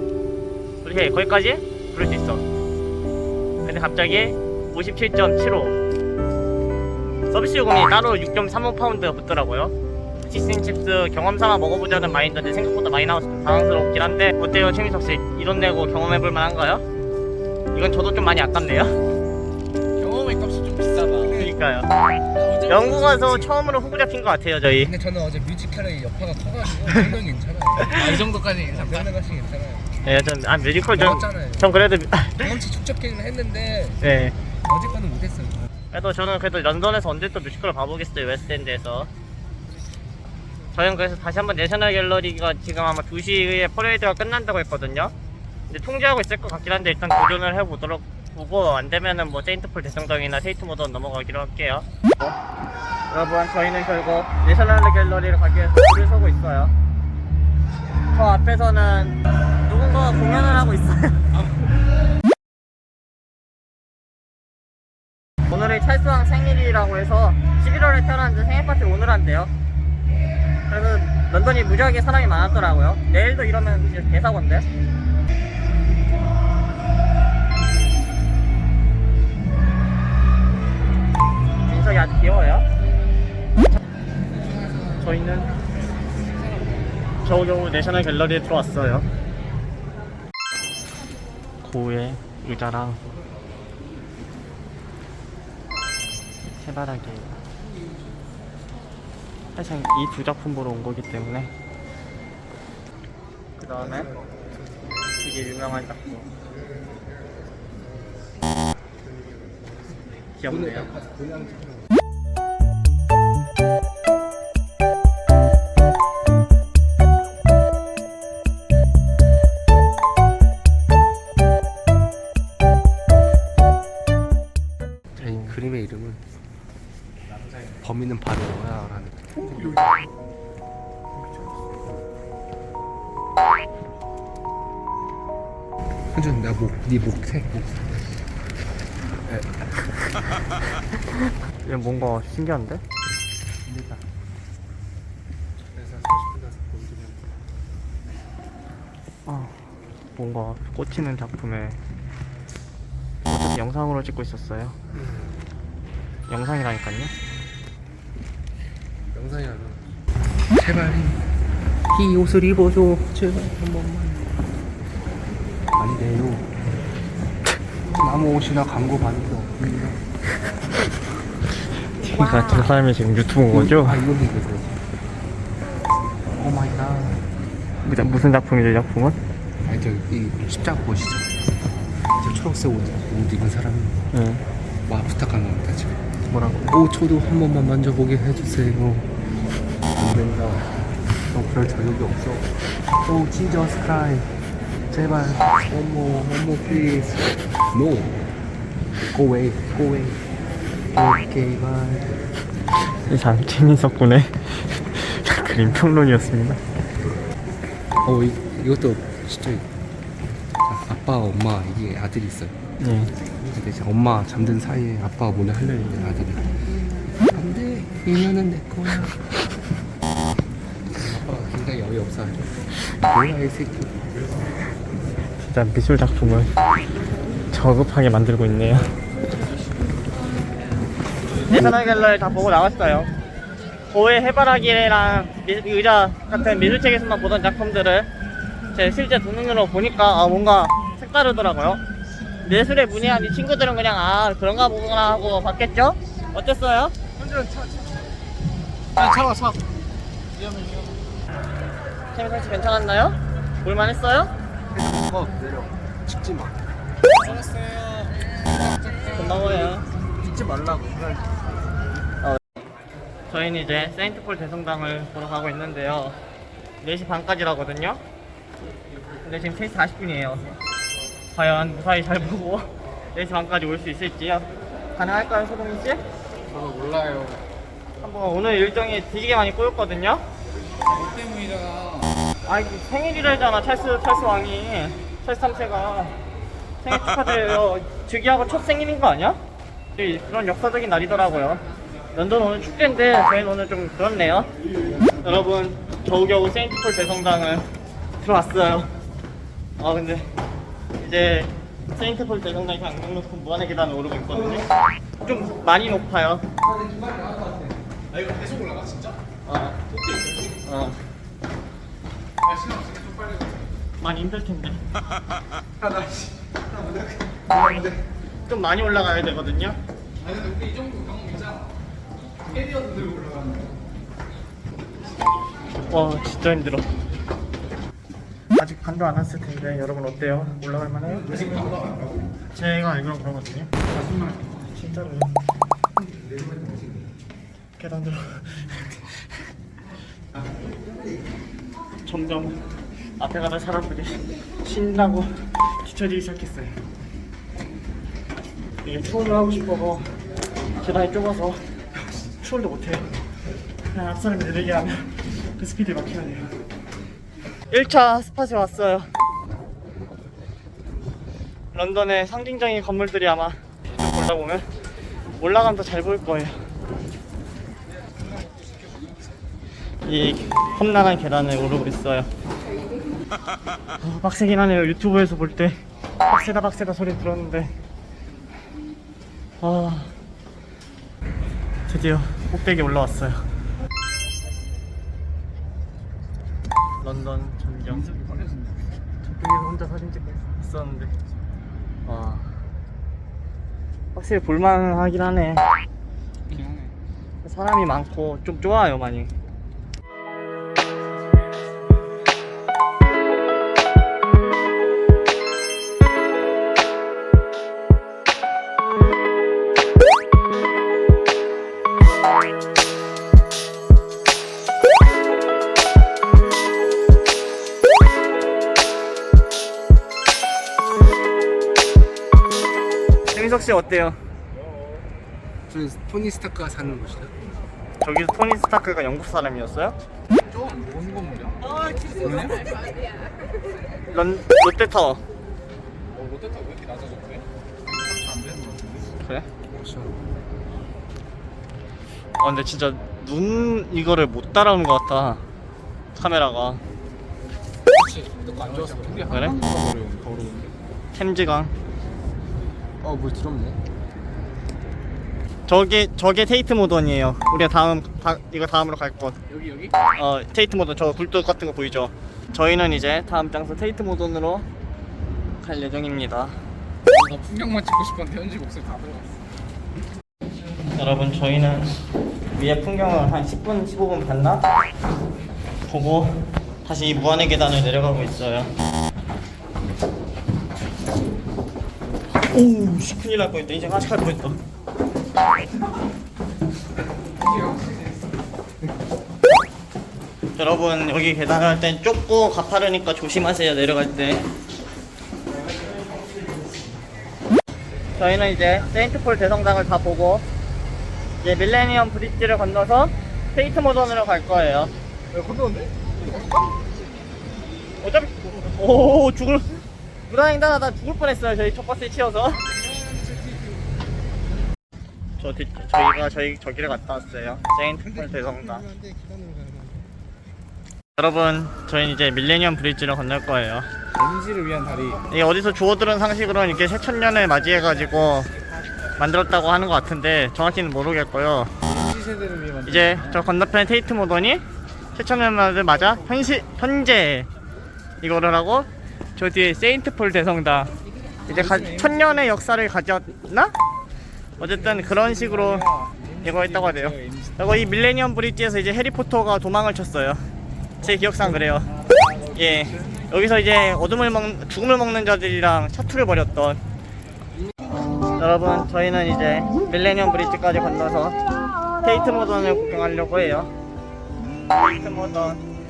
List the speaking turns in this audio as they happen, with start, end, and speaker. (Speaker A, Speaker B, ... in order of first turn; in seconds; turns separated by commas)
Speaker A: 0.8-2.4, Speaker A: 3.6-5.8, Speaker A: 7.3-16.8, Speaker A: 17.7-19.0, Speaker B: 19.9-21.5, Speaker A: 21.3-21.9, Speaker B: 22.4-23.4, Speaker A: 22.7-24.9, Speaker C: 23.1-23.5, Speaker C: 24.7-28.2, Speaker B: 27.9-29.1, Speaker C: 28.7-29.9, Speaker A: 30.0-32.5, Speaker C: 31.0-31.9, Speaker C: 32.4-34.0, Speaker A: 34.0-34.4, Speaker C: 34.6-35.7, Speaker A: 35.9-39.1, Speaker A: 40.7-45.1, Speaker A: 45.7-52.4, Speaker A: 53.1-56.7, Speaker A: 58.1-61.2, Speaker A: 65.5-69.5, Speaker A: 70.7-74.7, Speaker A: 81.7-82.7, Speaker B: 84.4-85.0, Speaker A: 85.0-85.5, Speaker A: 87.2-89.1, Speaker A: 91.6-93.0, Speaker A: 96.6-97.4, Speaker A: 99.6-101.5, Speaker A: 103.6-104.1, Speaker C: 103.8-104.9, Speaker A: 105.2-106.2, Speaker A: 110.4-111.0, Speaker C: 110.5-111.9, Speaker C: 125.2-126.2, Speaker C: 127.8-129.8, Speaker C: 136.1-137.9, Speaker C: 139.3-140.2, Speaker A: 141.6-142.8, Speaker C: 143.7-144.0, Speaker C: 145.7-147.3, Speaker A: 149.3-149.6, Speaker A: 150.2-151.8, Speaker A: 153.2-154.8, Speaker C: 154.9-155.4, Speaker A: 156.3-157.1, Speaker C: 159.1-159.9, Speaker C: 160.5-161.3, Speaker C: 161.9-164.5, Speaker C: 165.7-166.5, Speaker C: 167.9-170.0, Speaker A: 172.0-174.0, Speaker C: 173.5-174.8, Speaker C: 176.4-177.3, Speaker A: 177.9-179.2, Speaker C: 179.7-181.4, Speaker C: 182.2-184.1, Speaker A: 184.1-184.4, Speaker C: 184.9-186.0, Speaker A: 186.3-186.6, Speaker C: 186.6-189.1, Speaker C: 189.9-190.7, Speaker C: 191.3-194.4, Speaker C: 194.9-198.2, Speaker C: 198.9-200.3, Speaker C: 200.9-202.2, Speaker A: 203.1-206.6, Speaker C: 208.0-209.7, Speaker C: 210.7-212.6, Speaker A: 212.8-213.1, Speaker C: 213.4-219.3, Speaker C: 220.9-224.1, Speaker A: 225.4-226.5, Speaker A: 227.5-228.9, Speaker A: 231.5-233.1, Speaker A: 233.9-238.1, Speaker A: 238.7-241.8, Speaker A: 242.5-246.9, Speaker C: 247.2-248.1, Speaker B: 249.0-249.6, Speaker B: 250.3-251.0, Speaker A: 252.1-254.3, Speaker C: 254.7-256.6, Speaker B: 257.1-259.5, Speaker A: 259.1-259.9, Speaker C: 260.2-261.4, Speaker A: 263.3-266.2, Speaker A: 266.8-268.0, Speaker A: 269.2-270.6, Speaker A: 271.3-276.0, Speaker B: 276.5-277.4, Speaker A: 278.0-280.2, Speaker B: 280.9-282.1, Speaker A: 282.5-286.2, Speaker A: 286.8-289.4, Speaker A: 290.0-291.6, Speaker A: 292.1-294.5, Speaker A: 295.2-297.7, Speaker A: 298.2-298.9, Speaker A: 299.8-300.3, Speaker A: 301.0-304.7, Speaker A: 305.2-306.4, Speaker C: 306.6-307.8, Speaker B: 308.1-309.2, Speaker A: 309.5-309.8, Speaker B: 309.9-310.5, Speaker A: 310.6-311.0, Speaker B: 312.4-313.7, Speaker A: 314.0-314.8, Speaker C: 315.8-318.0, Speaker A: 318.5-319.8, Speaker B: 320.2-321.7, Speaker B: 322.4-323.7, Speaker A: 325.9-326.9, Speaker A: 328.6-331.4, Speaker B: 331.3-332.0, Speaker A: 332.5-333.7, Speaker B: 334.0-334.4, Speaker A: 334.7-335.3, Speaker C: 336.0-337.0, Speaker A: 337.8-339.2, Speaker A: 342.1-342.6, Speaker A: 343.2-346.8, Speaker A: 348.8-350.1, Speaker A: 350.8-351.6, Speaker A: 352.4-353.1, Speaker A: 353.9-356.5, Speaker A: 357.7-359.1, Speaker A: 361.7-364.7, Speaker A: 365.4-366.6, Speaker A: 370.1-372.3, Speaker A: 374.0-377.8, Speaker A: 379.6-380.1, Speaker A: 381.9-383.4, Speaker A: 387.0-388.1, Speaker B: 388.0-388.7, Speaker A: 389.2-391.1, Speaker A: 392.1-392.5, Speaker A: 394.1-395.6, Speaker B: 396.5-396.9, Speaker A: 397.4-399.3, Speaker A: 423.3-424.2, Speaker C: 425.7-427.4, Speaker A: 428.0-430.0, Speaker B: 430.5-432.8, Speaker A: 434.1-435.2, Speaker B: 436.1-439.2, Speaker C: 439.7-440.2, Speaker A: 442.4-445.4, Speaker A: 446.1-446.8, Speaker B: 447.9-450.7, Speaker C: 448.2-449.5, Speaker A: 451.1-451.7, Speaker C: 453.0-453.8, Speaker A: 455.7-459.4, Speaker B: 459.5-460.0, Speaker A: 460.2-464.7, Speaker A: 465.6-466.6, Speaker B: 467.1-469.4, Speaker A: 470.9-472.0, Speaker A: 472.5-474.6, Speaker A: 475.9-478.7, Speaker A: 482.5-484.6, Speaker B: 487.4-488.1, Speaker A: 490.6-494.5, Speaker A: 498.2-500.4, Speaker A: 501.4-504.9, Speaker B: 505.3-506.7, Speaker A: 508.0-512.6, Speaker C: 512.8-513.7, Speaker A: 515.4-518.9, Speaker C: 518.1-520.1, Speaker A: 521.2-523.9, Speaker B: 524.2-525.2, Speaker A: 525.3-528.5, Speaker A: 529.2-531.7, Speaker B: 531.9-533.4, Speaker A: 532.9-534.6, Speaker A: 535.2-537.5, Speaker A: 538.2-540.9, Speaker A: 541.5-543.7, Speaker B: 541.5-542.2, Speaker A: 544.6-545.9, Speaker B: 544.8-547.6, Speaker A: 546.4-550.4, Speaker A: 551.0-551.9, Speaker B: 552.1-553.1, Speaker A: 552.5-556.8, Speaker A: 558.4-561.4, Speaker A: 562.0-563.7, Speaker A: 564.7-565.6